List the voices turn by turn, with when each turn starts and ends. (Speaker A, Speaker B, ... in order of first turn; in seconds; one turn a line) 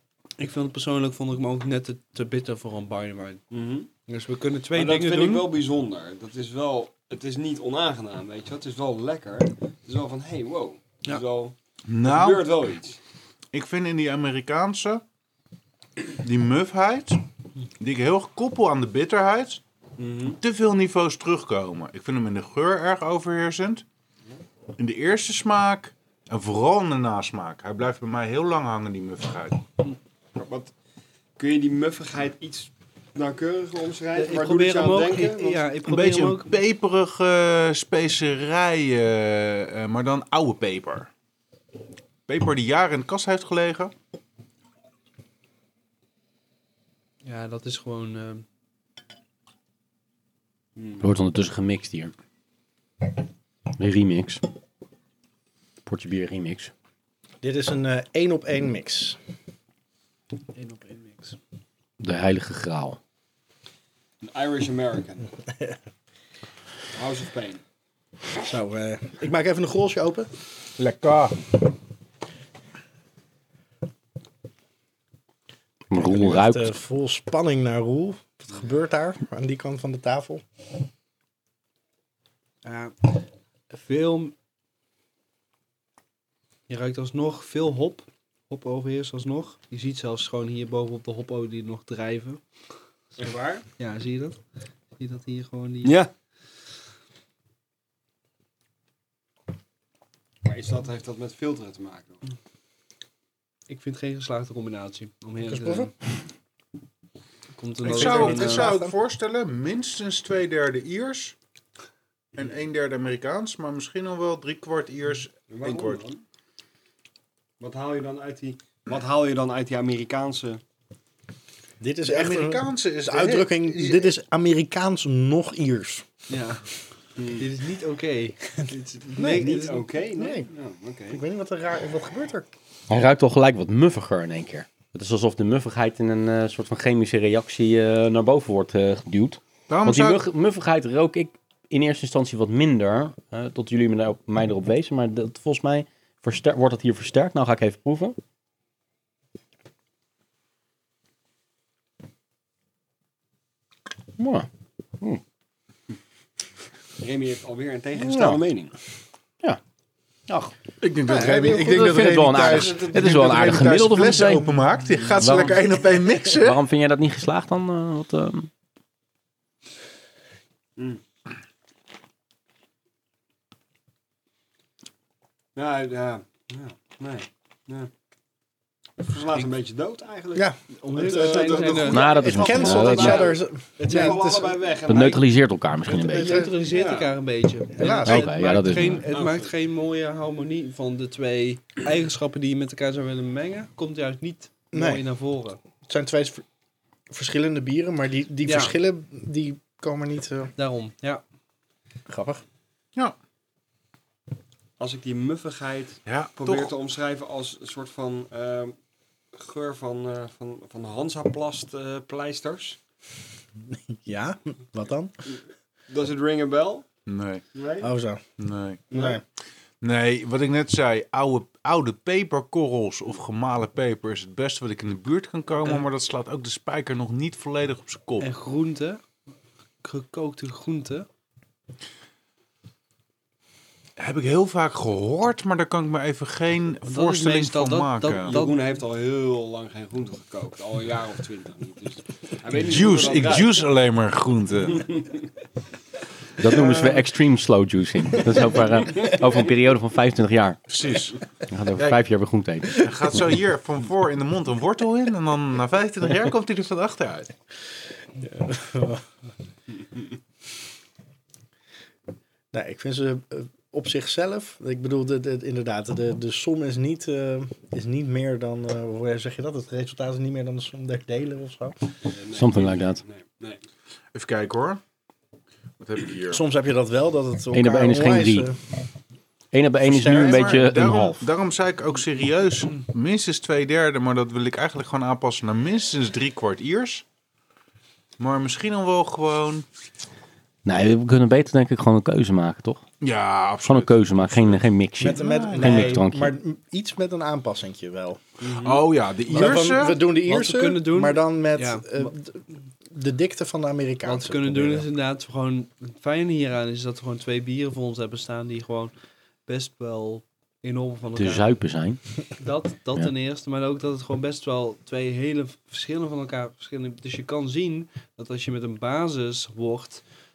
Speaker A: 0.4-3.4
Speaker B: 3.5-3.9
Speaker A: 4.1-5.5
Speaker B: 4.7-13.0
Speaker C: 11.9-12.5
Speaker C: 13.5-15.0
Speaker C: 16.1-17.2
Speaker C: 17.8-19.6
Speaker B: 20.0-20.4
Speaker C: 20.4-23.9
Speaker C: 24.8-29.6
Speaker B: 30.4-30.7
Speaker B: 31.4-35.6
Speaker A: 34.2-36.5
Speaker C: 35.9-41.1
Speaker C: 42.3-43.9
Speaker A: 47.2-48.5
Speaker B: 50.8-51.0
Speaker D: 51.0-52.1
Speaker D: 53.8-54.4
Speaker D: 55.9-56.7
Speaker E: 57.4-59.2
Speaker A: 60.5-61.4
Speaker D: 62.0-63.0
Speaker B: 64.2-65.3
Speaker B: 66.9-67.6
Speaker E: 68.4-70.3
Speaker C: 70.8-71.4
Speaker D: 75.9-76.8
Speaker E: 75.9-80.5
Speaker A: 82.6-84.3
Speaker A: 86.7-92.4
Speaker B: 93.2-93.7
Speaker A: 93.8-94.4
Speaker A: 95.0-96.0
Speaker B: 95.8-96.1
Speaker B: 100.4-102.2
Speaker A: 103.7-105.9
Speaker E: 105.5-105.9
Speaker A: 107.6-108.7
Speaker E: 107.8-109.0
Speaker C: 107.8-111.3
Speaker C: 112.3-116.0
Speaker B: 115.5-116.2
Speaker B: 117.6-120.6
Speaker E: 121.8-126.1
Speaker C: 122.1-124.1
Speaker A: 126.3-126.6
Speaker B: 127.2-127.5
Speaker A: 127.3-128.6
Speaker B: 128.7-131.2
Speaker A: 129.1-129.9
Speaker E: 129.2-129.5
Speaker E: 130.2-130.5
Speaker E: 131.1-132.5
Speaker D: 132.9-148.2
Speaker C: 139.7-140.2
Speaker D: 154.2-154.5
Speaker B: 157.0-158.7
Speaker D: 158.0-158.4
Speaker D: 160.3-160.5
Speaker C: 160.8-166.6
Speaker E: 161.0-162.8
Speaker D: 161.4-164.5
Speaker D: 165.2-165.6
Speaker D: 166.3-168.5
Speaker B: 175.6-177.9
Speaker B: 179.0-185.2
Speaker E: 180.3-184.5
Speaker A: 180.8-183.2
Speaker D: 181.9-183.3
Speaker A: 183.8-185.2
Speaker D: 184.9-186.4
Speaker E: 185.9-186.6
Speaker A: 185.9-195.6
Speaker B: 186.7-187.2
Speaker E: 187.8-188.3
Speaker D: 188.0-189.1
Speaker B: 189.1-189.5
Speaker E: 194.7-195.1
Speaker E: 195.8-196.4
Speaker E: 197.1-200.5
Speaker A: 198.5-198.7
Speaker A: 200.6-201.2
Speaker E: 202.1-202.4
Speaker B: 204.8-208.8
Speaker C: 206.1-206.7
Speaker B: 209.3-212.8
Speaker E: 213.7-215.2
Speaker B: 215.9-216.8
Speaker C: 217.1-217.4
Speaker B: 217.6-217.9
Speaker E: 217.8-218.2
Speaker C: 218.4-218.8
Speaker B: 218.9-219.2
Speaker E: 218.9-219.2
Speaker C: 219.8-228.3
Speaker A: 228.2-229.0
Speaker A: 229.8-231.1
Speaker C: 234.0-238.3
Speaker A: 236.9-238.6
Speaker B: 238.2-243.7
Speaker C: 242.6-245.0
Speaker D: 246.4-250.6
Speaker C: 250.7-251.2
Speaker D: 251.5-252.8
Speaker C: 251.8-252.0
Speaker C: 252.7-257.3
Speaker E: 258.2-259.0
Speaker E: 262.5-271.8
Speaker B: 272.1-273.6
Speaker D: 272.4-273.0
Speaker C: 274.1-274.8
Speaker C: 275.8-276.4
Speaker E: 276.3-278.6
Speaker D: 277.5-278.5
Speaker D: 279.5-281.2
Speaker C: 279.9-287.0
Speaker E: 279.9-280.9
Speaker C: 288.2-289.6
Speaker D: 290.6-292.8
Speaker C: 293.0-296.0
Speaker D: 293.6-296.4
Speaker E: 295.0-298.2
Speaker B: 298.4-298.9
Speaker C: 298.6-300.0
Speaker E: 299.3-304.9
Speaker A: 300.2-302.1
Speaker A: 304.0-308.9
Speaker A: 309.5-311.6
Speaker D: 311.2-312.0
Speaker A: 312.4-320.0